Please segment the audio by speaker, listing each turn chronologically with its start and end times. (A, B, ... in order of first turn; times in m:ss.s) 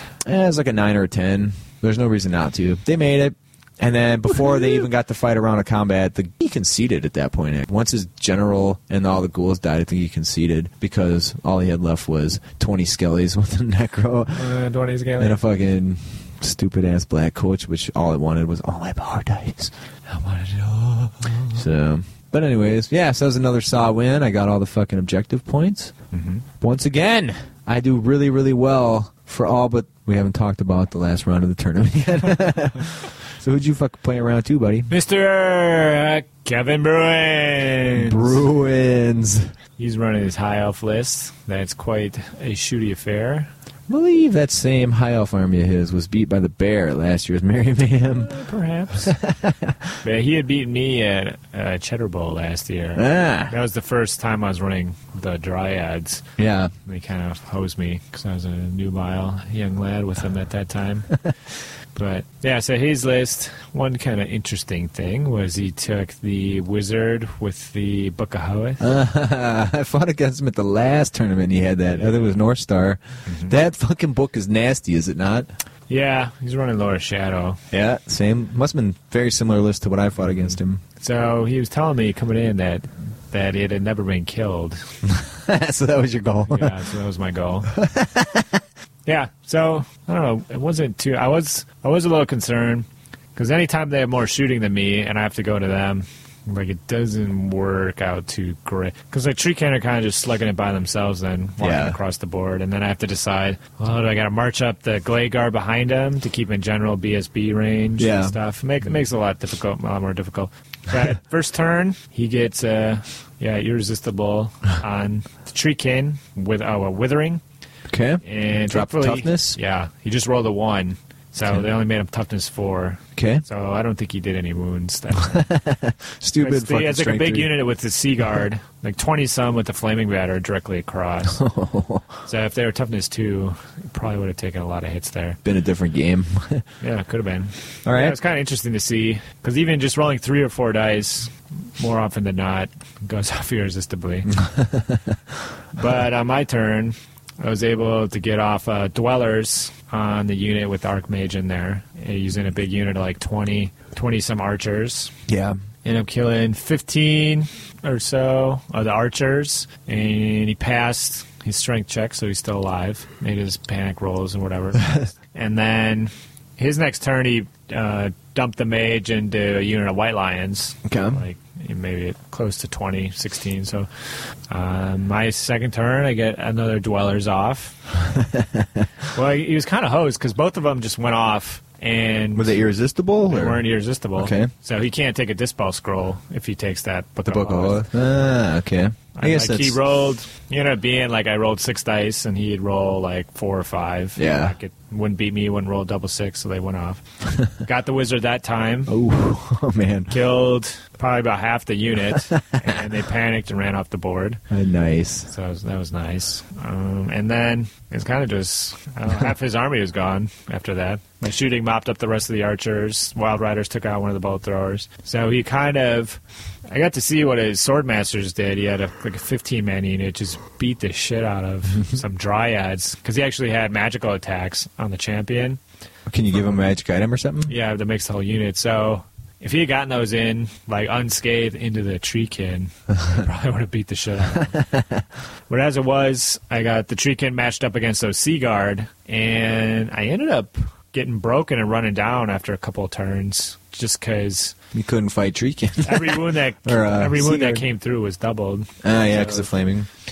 0:00.2-0:14.5 A
0:14.3-0:15.4 B
0:15.2-0:19.7 A
0:20.1-0:21.6 B
0:21.5-0:25.9 A
0:26.1-0:26.4 B
0:26.6-0:34.9 A
0:34.9-0:38.4 B
0:37.9-0:39.5 A
0:39.8-0:43.5 B
0:43.9-0:48.3 A
0:48.2-0:49.1 B
0:49.0-0:49.9 A
0:50.0-0:56.2 B
0:53.0-0:53.5 A
0:56.4-0:56.7 A
0:56.8-1:01.1 B
1:01.9-1:08.8 B
1:08.8-1:15.5 A
1:13.2-1:13.5 B
1:15.9-1:17.6 B
1:17.7-1:20.8 A
1:20.3-1:24.8 B
1:25.0-1:26.7 A
1:26.5-1:27.7 B
1:27.7-1:28.6 A
1:29.0-1:57.4 B
1:41.6-1:42.0 A
1:48.0-1:48.4 A
1:57.9-1:59.6 A
1:58.2-2:05.4 B
2:03.2-2:03.4 A
2:05.3-2:07.5 A
2:06.4-2:11.4 B
2:11.3-2:12.1 A
2:12.2-2:15.4 B
2:15.4-2:16.6 A
2:16.8-2:24.4 B
2:17.8-2:18.2 A
2:24.3-2:25.1 A
2:25.7-2:35.1 B
2:35.3-2:35.6 A
2:35.8-2:53.9 B
2:50.8-2:51.2 A
2:54.5-2:57.8 B
2:58.2-2:58.8 A
2:59.1-3:02.5 B
3:02.3-3:03.6 A
3:03.3-3:07.8 B
3:04.2-3:04.5 A
3:07.2-3:09.8 A
3:09.2-3:17.0 B
3:14.2-3:14.5 A
3:17.6-3:18.9 B
3:18.9-3:20.1 A
3:20.1-3:24.4 B
3:22.1-3:22.7 A
3:24.5-3:25.3 A
3:25.3-3:45.6 B
3:46.1-3:47.5 A
3:47.5-3:54.6 B
3:54.5-3:55.0 A
3:55.5-4:04.5 B
4:04.7-4:07.6 A
4:05.8-4:09.5 B
4:08.8-4:09.9 A